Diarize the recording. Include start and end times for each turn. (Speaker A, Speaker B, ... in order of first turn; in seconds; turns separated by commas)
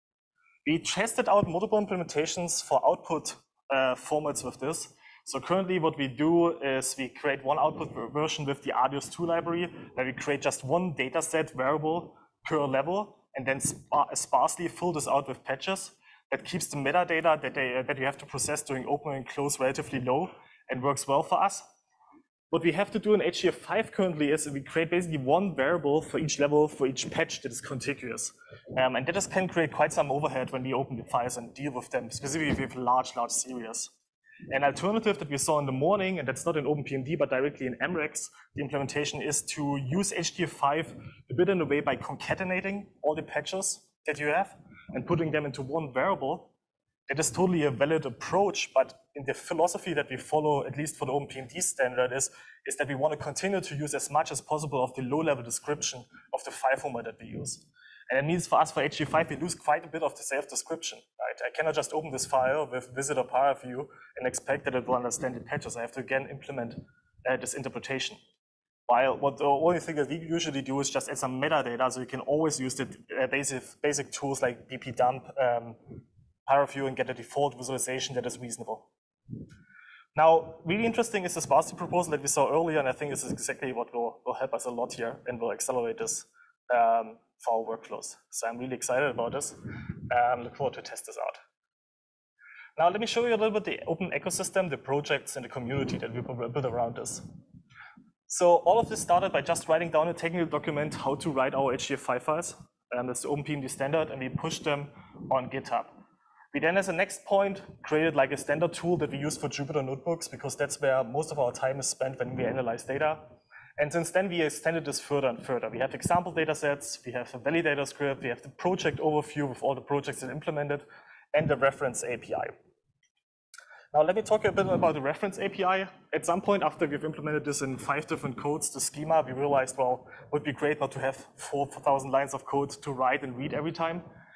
Speaker A: 0.6-21.6, Speaker A: 22.5-33.9, Speaker A: 34.5-46.5, Speaker A: 47.1-68.2, Speaker A: 68.9-78.9, Speaker A: 80.1-89.6, Speaker A: 90.1-91.4, Speaker A: 92.8-97.2, Speaker A: 98.3-106.0, Speaker A: 106.5-122.5, Speaker A: 123.9-134.0